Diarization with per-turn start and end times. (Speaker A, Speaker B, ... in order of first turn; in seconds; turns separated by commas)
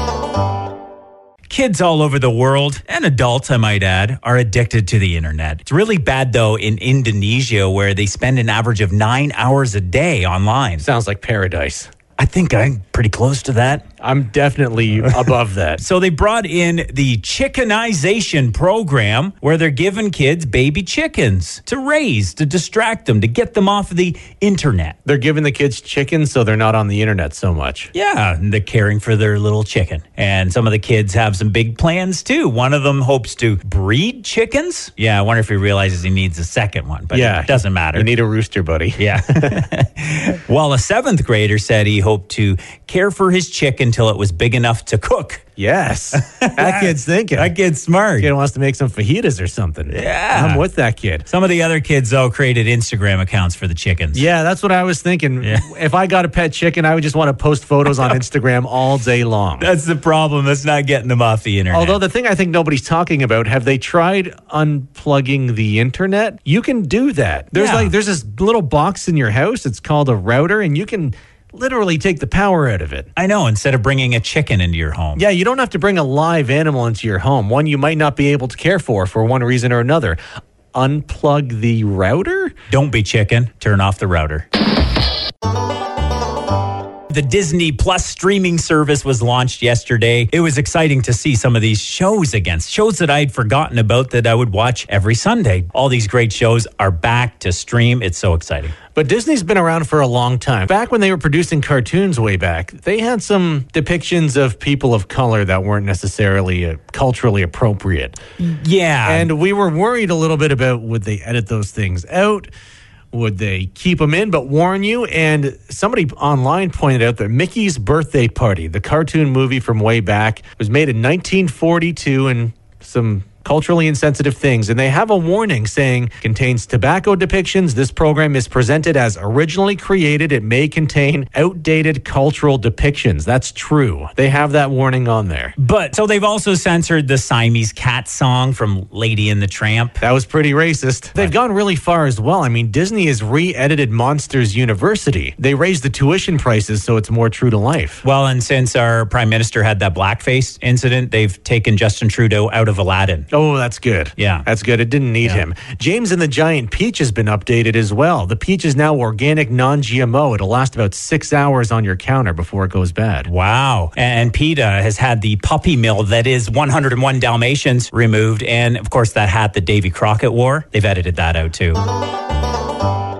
Speaker A: 1.5-10.8, Speaker B: 10.8-11.9, Speaker A: 12.2-13.9, Speaker B: 14.0-15.8, Speaker A: 15.8-24.9, Speaker B: 25.1-27.9, Speaker A: 27.9-38.1, Speaker B: 37.1-39.7, Speaker A: 39.0-45.4, Speaker B: 45.6-47.5, Speaker A: 46.1-48.3, Speaker B: 48.2-51.3, Speaker A: 49.9-50.6, Speaker A: 51.3-54.2, Speaker B: 54.1-59.7, Speaker A: 59.6-62.0, Speaker B: 61.7-73.1, Speaker A: 67.5-67.9, Speaker A: 73.2-75.2, Speaker B: 75.2-80.2, Speaker B: 80.7-82.5, Speaker A: 82.7-84.5, Speaker A: 87.1-98.8, Speaker B: 98.9-108.2, Speaker A: 108.4-109.3, Speaker B: 109.0-112.5, Speaker B: 113.1-135.5, Speaker A: 135.6-140.0, Speaker B: 140.0-148.0, Speaker A: 148.0-153.3, Speaker B: 153.3-163.3, Speaker A: 154.2-154.4, Speaker A: 163.2-171.8